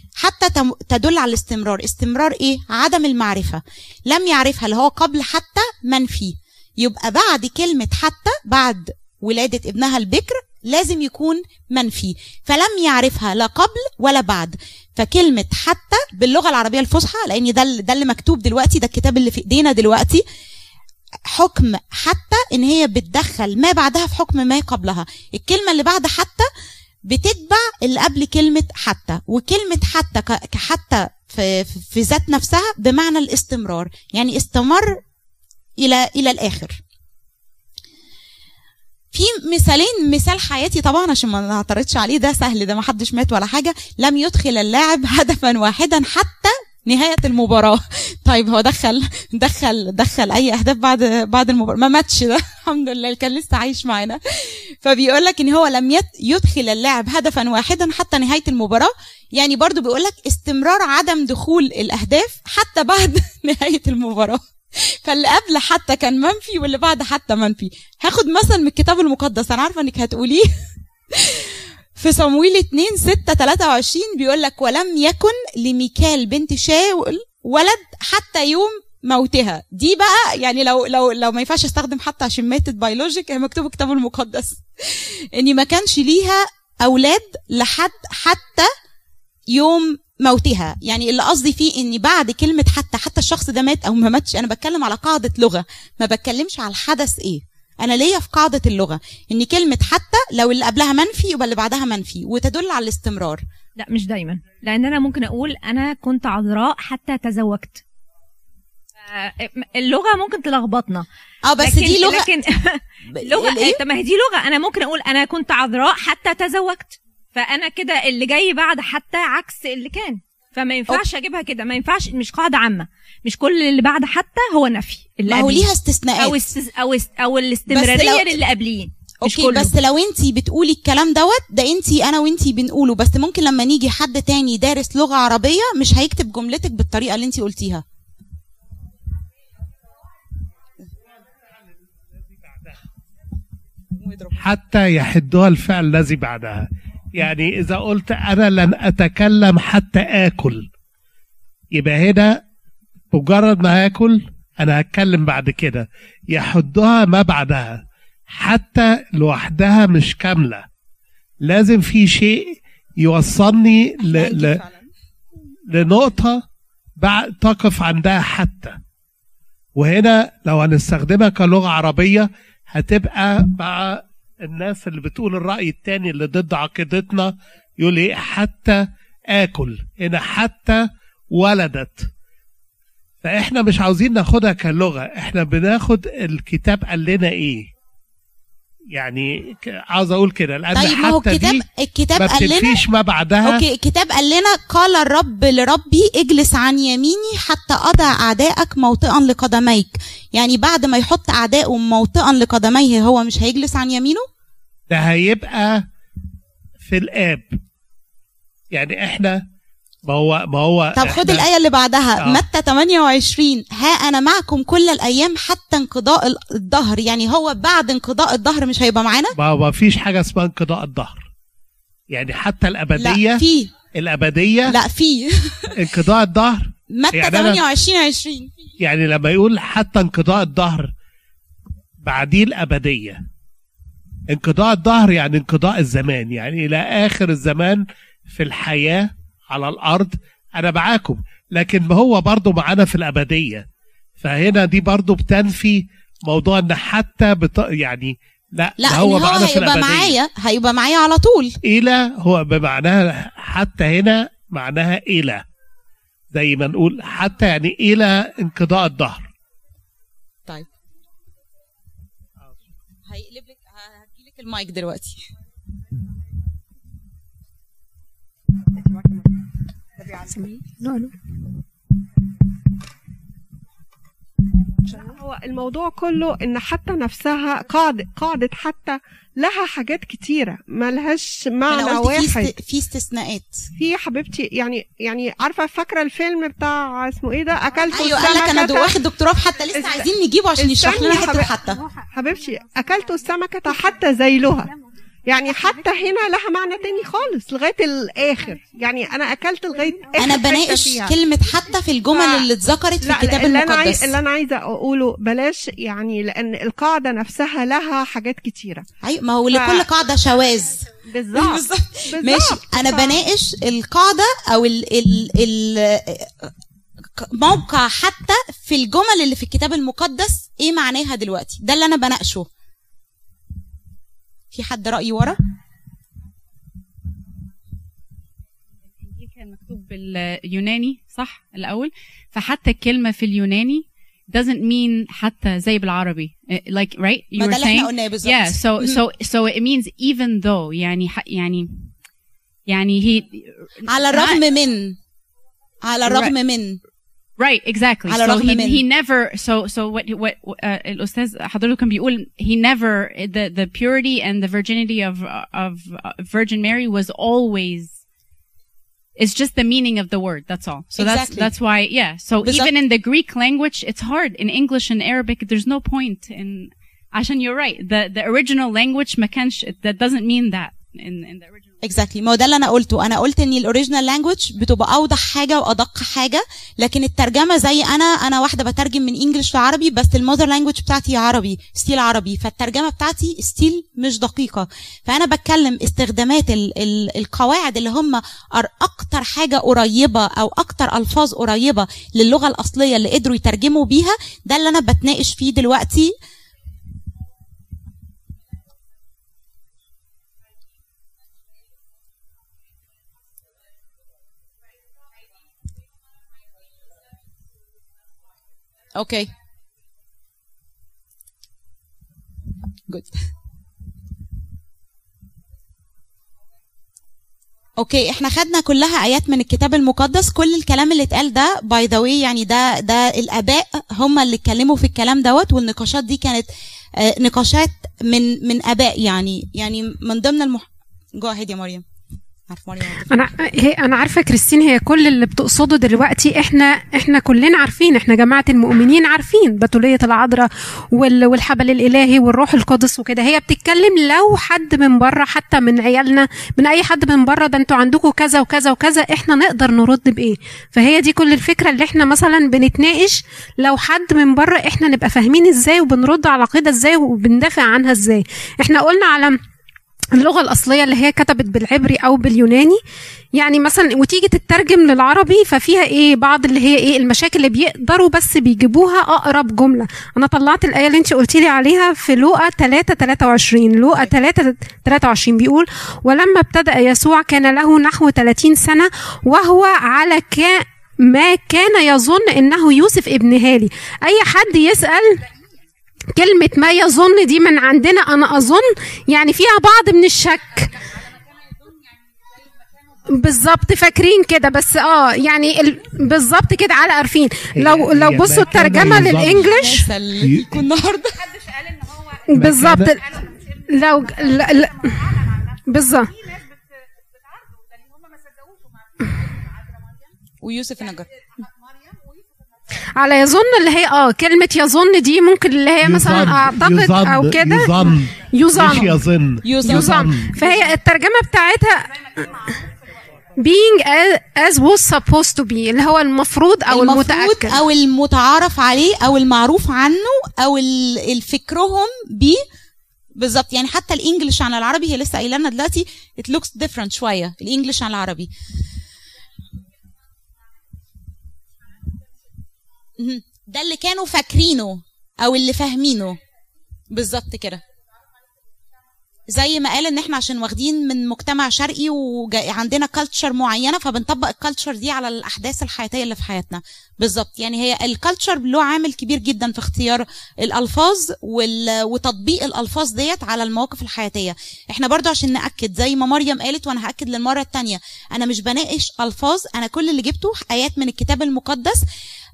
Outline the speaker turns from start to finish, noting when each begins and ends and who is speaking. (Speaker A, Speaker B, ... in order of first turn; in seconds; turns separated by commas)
Speaker A: 0.2-20.2, Speaker A: 21.3-26.5, Speaker A: 27.1-35.0, Speaker A: 35.8-36.8, Speaker A: 39.1-64.5, Speaker A: 65.0-70.5, Speaker A: 71.2-88.7, Speaker A: 89.5-103.4, Speaker B: 103.8-107.8, Speaker B: 109.0-111.1, Speaker A: 111.5-112.3, Speaker B: 111.6-129.7, Speaker A: 113.1-113.8, Speaker A: 125.3-126.4, Speaker A: 127.7-128.3, Speaker A: 129.2-137.8, Speaker A: 144.0-144.4, Speaker C: 144.4-150.7, Speaker C: 151.7-152.4, Speaker C: 153.1-160.7, Speaker C: 161.4-164.6, Speaker A: 164.0-164.9, Speaker C: 165.7-166.4, Speaker C: 167.0-168.8, Speaker C: 169.8-182.1, Speaker C: 183.2-187.7, Speaker C: 188.9-191.6, Speaker A: 190.7-192.8, Speaker C: 192.2-193.6, Speaker A: 193.4-204.2, Speaker C: 204.9-205.9, Speaker C: 206.8-207.5, Speaker C: 208.7-209.4, Speaker C: 210.1-211.5, Speaker A: 211.0-219.3, Speaker C: 219.4-221.3, Speaker C: 222.1-224.8, Speaker A: 223.0-223.7, Speaker A: 224.7-225.8, Speaker C: 225.8-227.6, Speaker A: 226.9-228.5, Speaker C: 228.8-230.9, Speaker C: 232.0-233.2, Speaker C: 234.3-243.7, Speaker C: 244.2-250.2, Speaker A: 248.8-251.6, Speaker C: 251.7-255.4, Speaker C: 256.3-259.3, Speaker A: 263.1-265.2, Speaker D: 270.8-271.1, Speaker E: 274.9-282.5, Speaker A: 281.7-283.6, Speaker E: 283.8-289.0, Speaker A: 287.9-291.8, Speaker E: 289.8-291.5, Speaker E: 292.1-294.7, Speaker E: 295.3-301.2, Speaker A: 300.2-304.2, Speaker E: 302.1-302.5, Speaker E: 303.0-308.9, Speaker A: 309.0-310.8, Speaker E: 309.5-309.9, Speaker E: 311.1-313.2, Speaker A: 311.3-316.4, Speaker A: 317.2-322.5, Speaker A: 324.5-325.4, Speaker F: 329.0-341.9, Speaker A: 337.4-339.0, Speaker F: 342.7-344.4, Speaker A: 343.9-345.0, Speaker A: 345.8-346.8, Speaker F: 346.1-346.3, Speaker F: 347.4-358.0, Speaker A: 348.1-348.8, Speaker F: 359.2-371.8, Speaker A: 360.9-361.5, Speaker A: 362.4-362.7, Speaker A: 371.8-396.1, Speaker A: 408.9-409.3, Speaker A: 417.8-426.5, Speaker A: 427.0-431.8, Speaker A: 432.5-433.2, Speaker D: 433.1-459.4, Speaker D: 460.1-462.8, Speaker D: 463.4-485.3, Speaker D: 486.1-490.7, Speaker D: 493.1-499.9, Speaker C: 497.6-499.6, Speaker A: 498.7-501.3, Speaker C: 500.2-500.6, Speaker D: 502.3-503.2, Speaker C: 502.4-503.0, Speaker D: 503.7-505.1, Speaker D: 505.7-506.2, Speaker A: 510.4-511.1, Speaker D: 513.0-519.0, Speaker C: 515.8-520.4, Speaker A: 518.6-520.1, Speaker D: 519.6-522.4, Speaker D: 523.4-527.6, Speaker A: 526.7-532.4, Speaker A: 533.2-538.3, Speaker A: 543.0-546.2, Speaker A: 546.9-547.6, Speaker A: 549.3-571.8